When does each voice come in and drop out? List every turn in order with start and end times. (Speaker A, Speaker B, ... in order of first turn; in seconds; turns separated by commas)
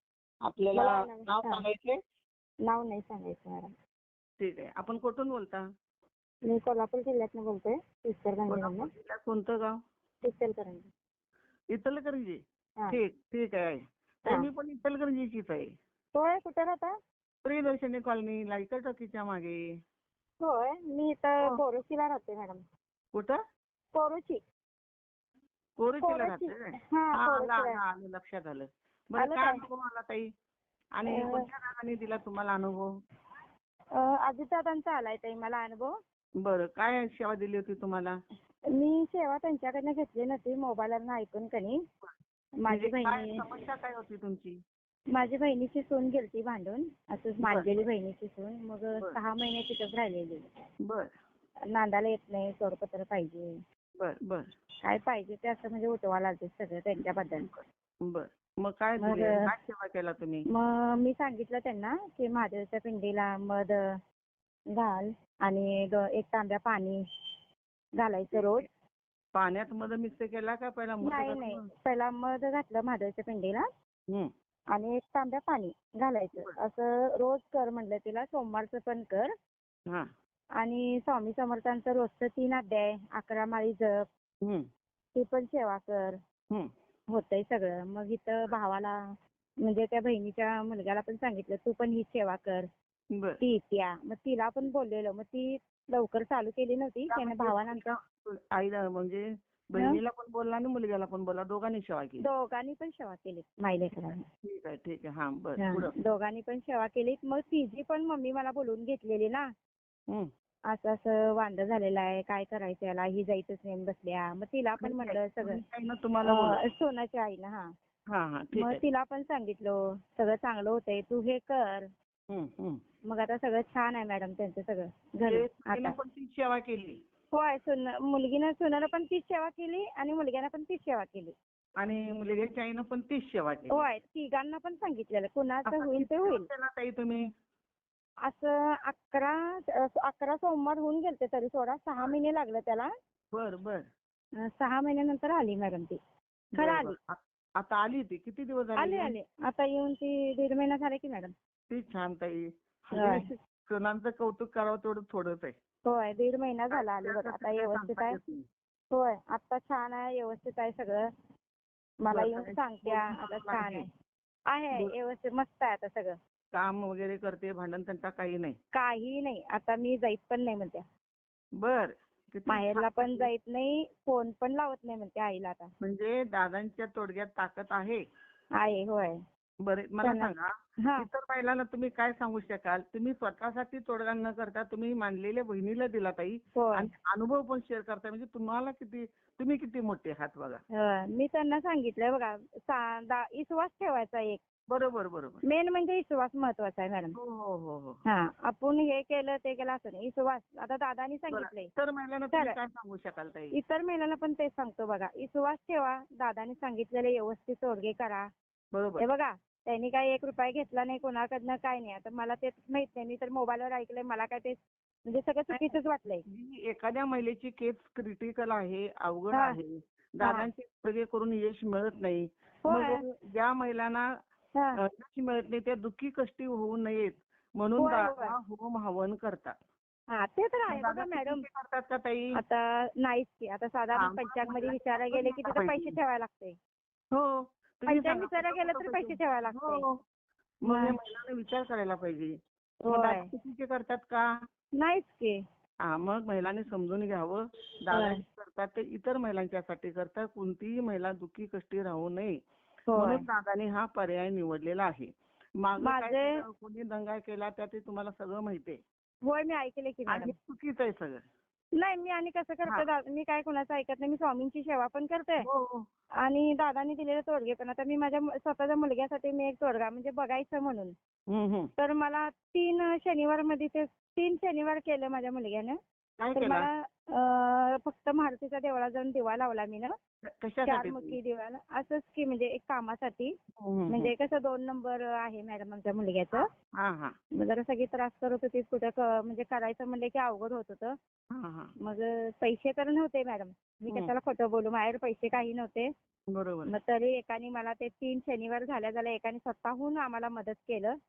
Speaker A: 0.5-2.0, Speaker B: 0.7-1.6, Speaker B: 2.7-3.7, Speaker A: 4.4-5.6, Speaker B: 6.5-8.9, Speaker A: 8.5-9.8, Speaker B: 10.2-10.9, Speaker A: 11.7-15.7, Speaker B: 16.1-16.9, Speaker A: 17.4-19.6, Speaker B: 20.4-22.6, Speaker A: 23.1-23.4, Speaker B: 23.9-24.4, Speaker A: 25.8-30.3, Speaker B: 26.0-27.8, Speaker B: 29.2-29.6, Speaker A: 31.0-32.9, Speaker B: 31.0-31.4, Speaker B: 33.9-35.9, Speaker A: 36.4-38.1, Speaker B: 38.7-41.8, Speaker B: 42.6-43.4, Speaker A: 42.7-44.6, Speaker B: 45.1-50.5, Speaker A: 47.4-47.7, Speaker A: 50.8-51.1, Speaker B: 51.7-53.6, Speaker A: 54.0-54.5, Speaker B: 54.8-57.5, Speaker A: 57.4-60.5, Speaker B: 59.0-59.5, Speaker B: 60.5-63.9, Speaker B: 64.7-67.0, Speaker B: 68.0-68.7, Speaker A: 69.3-71.7, Speaker B: 71.0-73.7, Speaker B: 74.7-79.3, Speaker B: 80.6-84.0, Speaker B: 85.1-86.2, Speaker B: 87.1-89.0, Speaker B: 89.6-92.7, Speaker A: 93.1-93.4, Speaker B: 93.4-97.8, Speaker A: 97.1-102.2, Speaker B: 102.2-104.2, Speaker A: 104.4-105.9, Speaker B: 105.6-109.5, Speaker B: 110.7-115.6, Speaker A: 114.8-116.6, Speaker B: 116.2-117.7, Speaker A: 118.1-118.8, Speaker B: 118.5-121.9, Speaker A: 122.3-122.8, Speaker B: 123.1-125.9, Speaker A: 125.3-127.0, Speaker B: 127.3-131.3, Speaker A: 131.8-133.8, Speaker B: 133.7-136.5, Speaker A: 135.7-137.2, Speaker B: 138.2-142.9, Speaker A: 143.3-143.8, Speaker B: 144.4-146.0, Speaker A: 146.5-149.1, Speaker B: 146.6-146.9, Speaker B: 148.8-151.3, Speaker A: 151.7-155.5, Speaker B: 152.9-153.3, Speaker B: 155.8-158.2, Speaker A: 156.7-158.4, Speaker B: 158.9-161.1, Speaker B: 162.0-163.9, Speaker A: 162.1-163.8, Speaker B: 164.5-166.2, Speaker A: 166.5-168.6, Speaker B: 168.7-170.8, Speaker A: 171.6-173.3, Speaker B: 172.5-175.7, Speaker A: 175.8-178.0, Speaker B: 178.6-179.2, Speaker A: 179.6-190.6, Speaker B: 180.0-180.3, Speaker B: 180.8-181.1, Speaker B: 186.6-186.9, Speaker B: 190.7-194.4, Speaker A: 194.7-195.4, Speaker B: 195.4-197.2, Speaker A: 197.1-198.0, Speaker B: 198.1-201.7, Speaker A: 201.3-203.6, Speaker B: 203.5-208.3, Speaker A: 208.7-209.1, Speaker B: 209.0-216.2, Speaker A: 216.2-224.1, Speaker B: 219.3-219.6, Speaker B: 220.2-220.5, Speaker B: 222.6-223.0, Speaker A: 224.8-229.5, Speaker B: 227.8-228.3, Speaker B: 230.1-231.4, Speaker A: 230.7-232.4, Speaker B: 232.3-236.6, Speaker A: 233.9-236.0, Speaker A: 237.1-240.0, Speaker B: 237.9-239.8, Speaker B: 240.6-240.9, Speaker A: 240.6-242.4, Speaker B: 242.8-243.3, Speaker A: 242.9-244.2, Speaker B: 244.8-245.4, Speaker A: 245.8-252.4, Speaker B: 247.9-248.2, Speaker B: 252.9-253.2, Speaker A: 252.9-258.8, Speaker B: 255.8-256.4, Speaker B: 259.2-260.3, Speaker A: 260.1-261.2, Speaker B: 261.8-265.5, Speaker A: 265.4-265.9, Speaker B: 266.2-270.9, Speaker A: 271.3-271.7, Speaker B: 271.8-275.8, Speaker A: 276.2-276.7, Speaker B: 276.3-279.9, Speaker A: 280.3-281.2, Speaker B: 280.6-283.3, Speaker A: 283.6-284.1, Speaker B: 283.9-286.5, Speaker A: 286.7-287.1, Speaker B: 287.4-290.9, Speaker A: 291.3-291.7, Speaker B: 291.8-295.9, Speaker A: 296.3-296.7, Speaker B: 296.7-301.0